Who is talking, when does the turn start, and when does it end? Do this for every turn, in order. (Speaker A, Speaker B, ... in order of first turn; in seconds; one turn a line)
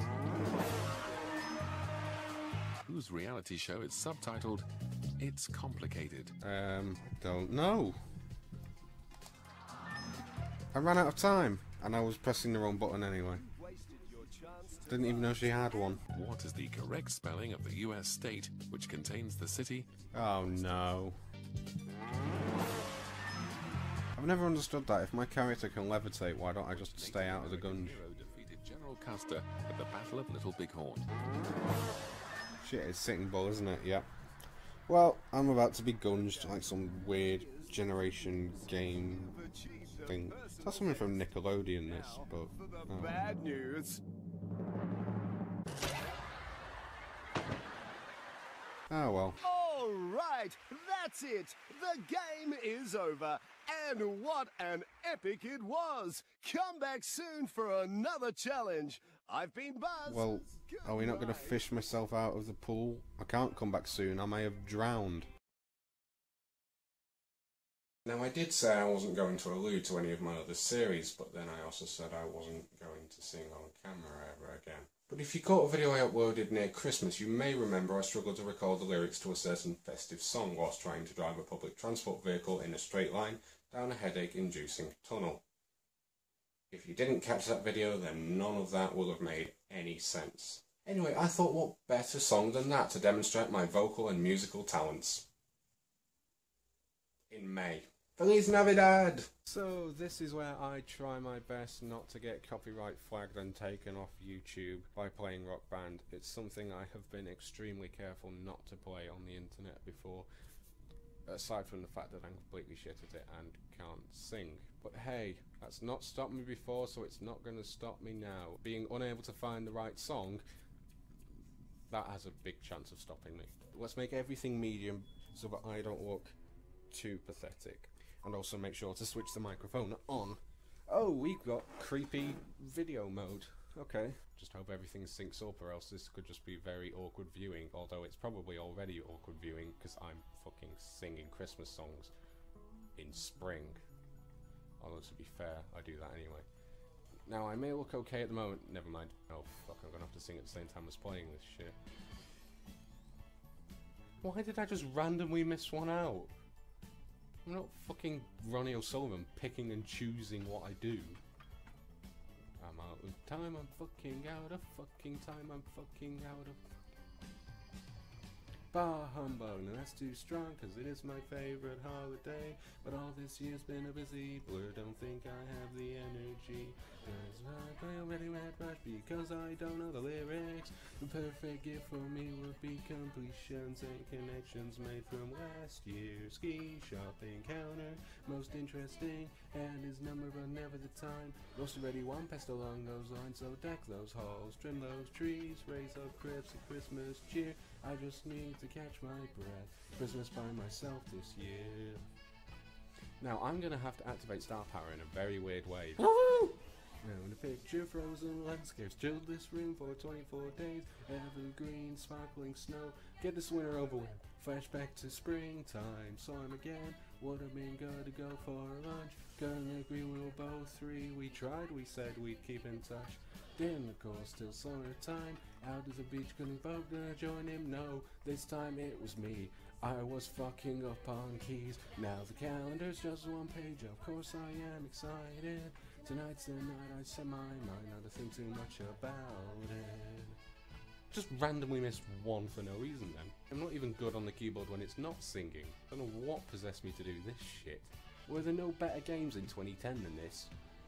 Speaker A: 2.9-4.7
Speaker A: 5.2-6.4
Speaker B: 6.4-8.0
Speaker B: 10.7-13.4
Speaker C: 13.2-16.1
Speaker B: 14.9-16.0
Speaker A: 16.1-19.9
Speaker B: 20.1-21.2
Speaker B: 24.2-28.0
Speaker A: 26.7-31.1
Speaker B: 32.6-34.1
Speaker B: 34.9-39.4
Speaker C: 36.1-44.0
Speaker B: 40.0-43.2
Speaker B: 48.9-49.4
Speaker C: 49.4-61.7
Speaker B: 60.1-65.3
Speaker B: 68.0-85.4
Speaker B: 86.7-95.3
Speaker B: 97.3-110.3
Speaker B: 111.3-120.4
Speaker B: 121.9-126.3
Speaker B: 126.9-142.1
Speaker B: 143.0-143.8
Speaker B: 144.8-146.5
Speaker B: 147.3-151.8
Speaker B: 154.2-156.3
Speaker B: 157.5-161.2
Speaker B: 162.6-166.6
Speaker B: 168.7-202.0
Speaker B: 203.2-240.4
Speaker B: 241.1-250.5